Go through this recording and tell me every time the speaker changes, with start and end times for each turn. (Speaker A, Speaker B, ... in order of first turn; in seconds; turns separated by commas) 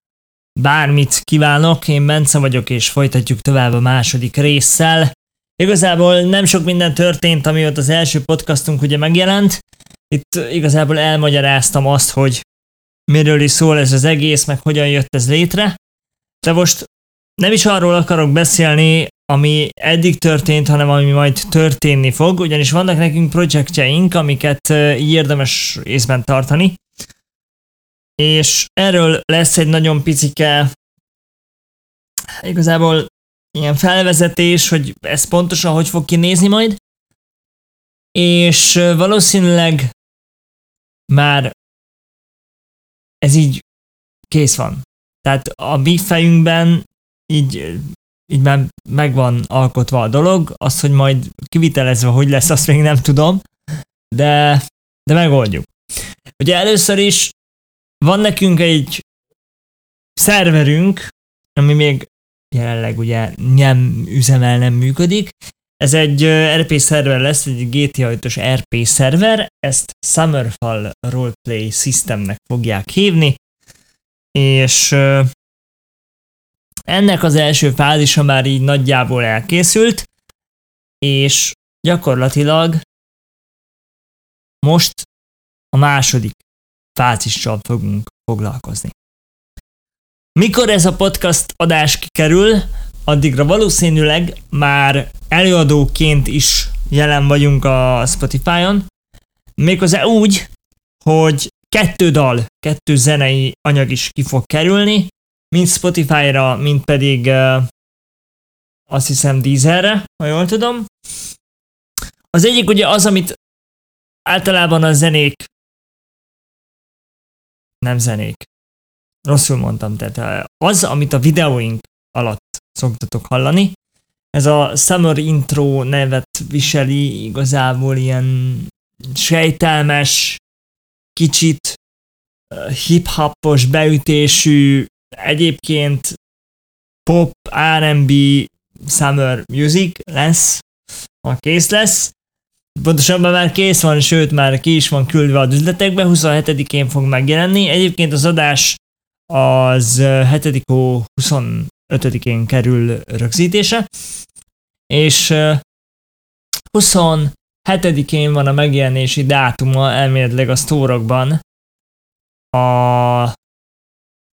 Speaker A: 0.6-12.4, Speaker A: 13.1-15.8, Speaker A: 16.4-26.8, Speaker A: 28.2-30.7, Speaker A: 32.4-36.8, Speaker A: 38.1-39.9, Speaker A: 41.1-41.5, Speaker A: 43.2-43.6, Speaker A: 44.3-53.4, Speaker A: 54.1-55.7, Speaker A: 56.4-57.4, Speaker A: 58.0-59.0, Speaker A: 60.2-73.4, Speaker A: 74.3-75.3, Speaker A: 76.9-80.1, Speaker A: 81.0-82.8, Speaker A: 84.6-85.1, Speaker A: 85.7-86.4, Speaker A: 87.0-89.0, Speaker A: 90.4-98.9, Speaker A: 99.6-100.5, Speaker A: 101.0-107.7, Speaker A: 108.9-110.9, Speaker A: 112.3-113.4, Speaker A: 114.3-115.5, Speaker A: 117.8-118.5, Speaker A: 119.3-123.8, Speaker A: 124.3-130.4, Speaker A: 131.2-131.8, Speaker A: 132.5-136.2, Speaker A: 137.1-140.6, Speaker A: 141.2-142.1, Speaker A: 142.8-153.9, Speaker A: 154.9-155.6, Speaker A: 156.7-161.4, Speaker A: 162.5-163.3